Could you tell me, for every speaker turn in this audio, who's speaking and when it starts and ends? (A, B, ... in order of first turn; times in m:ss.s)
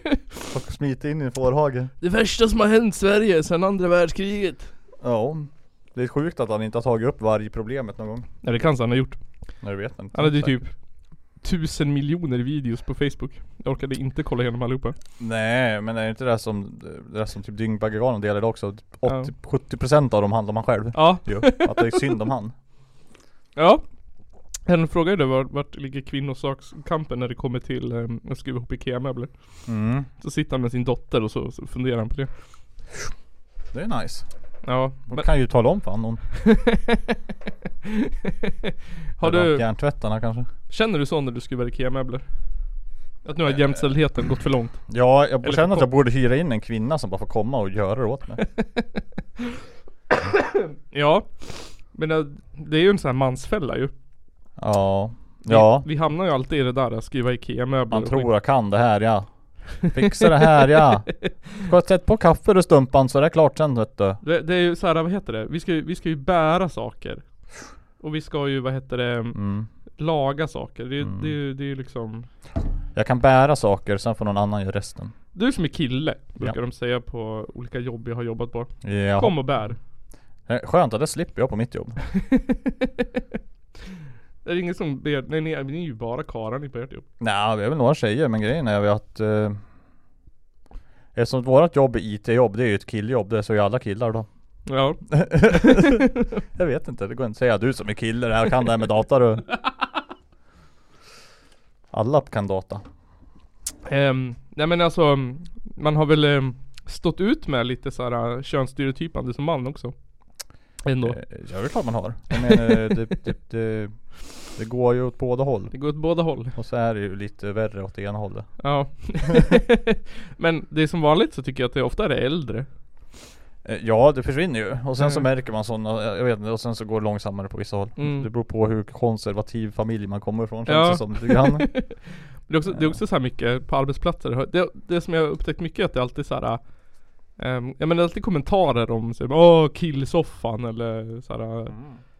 0:00.5-0:01.9 A
0:02.0-0:04.7 B
0:05.0-0:08.3 A
0:08.4-0:09.6 B
0:09.6-0:10.7 A
0:10.1-0:15.0 B
0:15.2-0:22.5 A
0:19.0-0:19.3 B
0:20.9-0:22.1 B
0:23.6-0:23.8 B
0:24.6-0:32.3 B
0:29.6-0:30.1 A
0:33.7-0:34.3 A
0:34.6-0:35.3 B
0:35.0-0:36.2 A
0:36.4-0:37.2 B
0:39.2-0:39.6 B
0:39.2-0:40.5 A
0:40.7-0:45.9 B
0:43.4-0:43.8 A
0:44.9-0:48.4 A
0:48.6-0:49.0 B
0:50.3-0:53.9 B
0:54.6-0:55.9 A
0:55.4-0:58.3 B
0:57.9-1:04.2 A
1:00.0-1:00.8 B
1:04.2-1:12.3 B
1:09.3-1:09.7 A
1:11.0-1:11.3 A
1:12.9-1:15.1 A
1:15.3-1:19.8 B
1:18.8-1:19.8 A
1:20.4-1:22.0 A
1:22.3-1:23.0 B
1:24.4-1:27.0 B
1:27.2-1:29.6 A
1:31.1-1:34.3 A
1:34.6-1:36.0 B
1:35.1-1:39.6 A
1:41.9-1:42.8 A
1:43.8-1:51.2 B
1:51.0-1:59.4 A
1:52.3-1:52.9 B
1:55.7-1:56.6 B
1:58.6-2:02.7 B
2:03.6-2:12.0 A
2:05.0-2:05.2 B
2:08.0-2:08.3 B
2:10.6-2:21.8 B
2:12.6-2:13.0 A
2:21.7-2:22.0 A